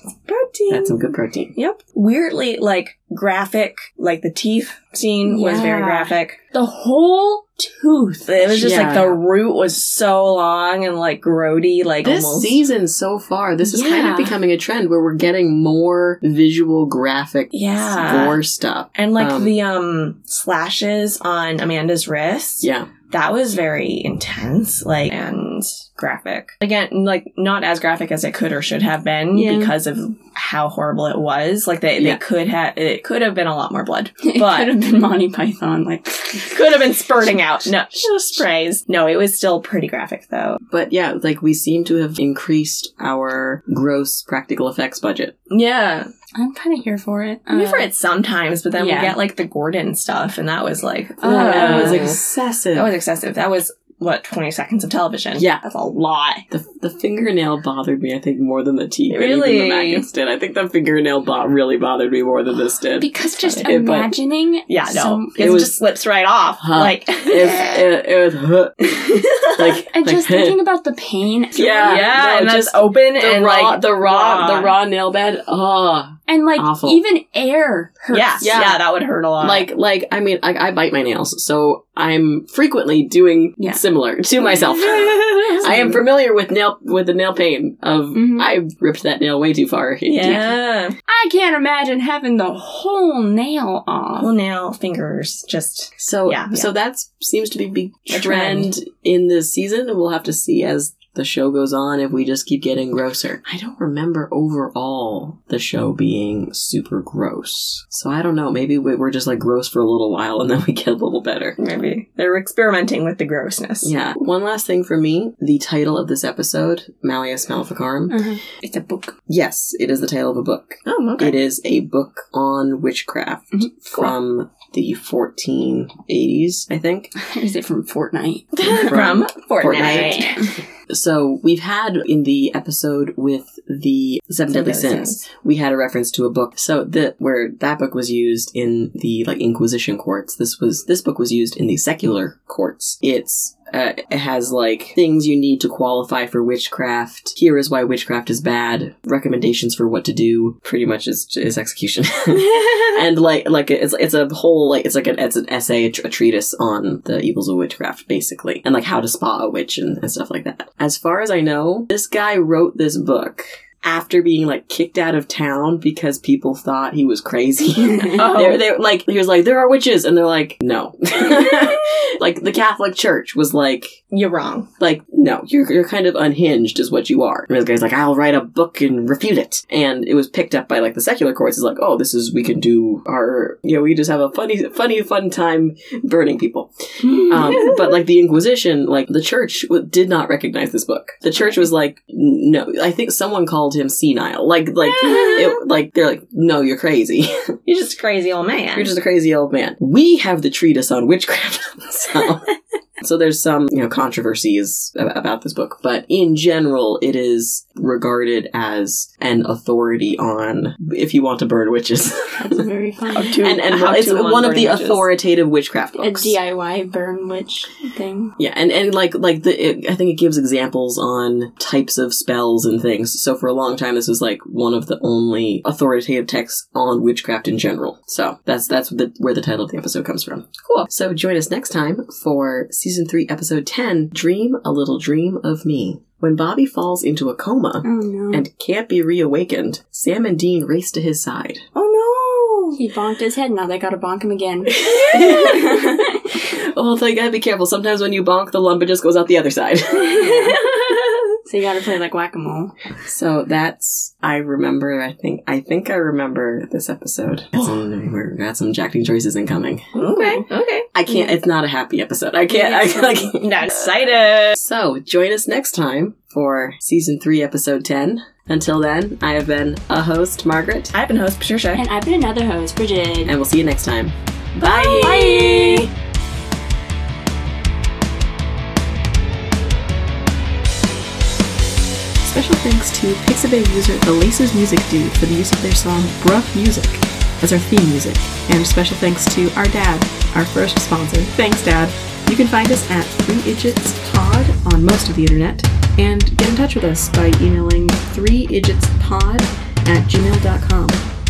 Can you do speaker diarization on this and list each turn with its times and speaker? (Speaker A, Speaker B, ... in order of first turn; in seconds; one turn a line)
Speaker A: 0.3-6.4
Speaker B: 0.7-1.5
Speaker C: 5.2-8.4
Speaker A: 8.3-12.6
Speaker B: 8.4-9.2
Speaker B: 12.0-19.5
Speaker C: 13.6-14.3
Speaker A: 17.5-18.4
Speaker A: 18.9-34.7
Speaker B: 22.6-22.9
Speaker C: 29.4-29.7
Speaker B: 29.4-29.7
Speaker C: 34.2-36.8
Speaker A: 36.5-40.6
Speaker B: 40.7-45.3
Speaker A: 45.5-46.1
Speaker C: 46.3-47.9
Speaker A: 47.5-52.2
Speaker C: 48.7-49.2
Speaker C: 51.2-52.1
Speaker B: 51.2-52.9
Speaker A: 52.7-56.4
Speaker B: 55.4-55.6
Speaker B: 56.5-63.1
Speaker A: 59.1-60.1
Speaker C: 63.0-65.6
Speaker B: 63.6-64.1
Speaker A: 64.7-67.8
Speaker B: 65.4-65.7
Speaker B: 66.6-68.8
Speaker A: 68.8-69.6
Speaker B: 69.5-70.6
Speaker C: 69.8-72.1
Speaker B: 71.5-77.0
Speaker A: 71.8-74.7
Speaker C: 76.3-78.5
Speaker A: 78.1-79.7
Speaker B: 78.4-78.8
Speaker B: 79.4-90.4
Speaker C: 83.6-83.8
Speaker A: 84.6-86.0
Speaker C: 88.1-88.5
Speaker A: 90.1-91.0
Speaker C: 90.2-90.5
Speaker C: 91.1-94.3
Speaker A: 94.2-96.7
Speaker B: 96.0-111.6
Speaker A: 98.1-98.7
Speaker A: 111.6-113.9
Speaker B: 113.8-118.3
Speaker C: 118.1-119.1
Speaker B: 119.3-127.1
Speaker A: 120.8-121.4
Speaker C: 127.2-128.7
Speaker A: 128.5-130.5
Speaker B: 128.6-174.0
Speaker C: 129.8-130.5
Speaker A: 134.5-135.2
Speaker C: 167.8-168.3
Speaker A: 168.1-168.6
Speaker A: 171.4-171.7
Speaker A: 174.1-174.7
Speaker B: 174.8-197.5
Speaker A: 195.0-195.5
Speaker A: 197.7-198.9
Speaker B: 198.7-202.5
Speaker B: 203.0-212.5
Speaker C: 212.4-213.5
Speaker A: 213.1-215.1
Speaker B: 213.4-216.4
Speaker C: 215.9-218.3
Speaker B: 218.4-241.7
Speaker C: 237.8-238.4
Speaker A: 241.7-242.8
Speaker C: 242.7-246.3
Speaker B: 244.8-246.1
Speaker B: 246.7-250.5
Speaker A: 250.2-251.4
Speaker C: 251.4-252.7
Speaker B: 253.0-260.4
Speaker A: 259.9-260.9
Speaker B: 260.9-263.8
Speaker C: 262.5-263.3
Speaker A: 263.3-264.6
Speaker B: 264.5-270.9
Speaker A: 270.9-271.8
Speaker C: 271.7-273.3
Speaker B: 273.2-274.1
Speaker A: 274.6-275.8
Speaker C: 274.6-275.9
Speaker B: 282.2-301.0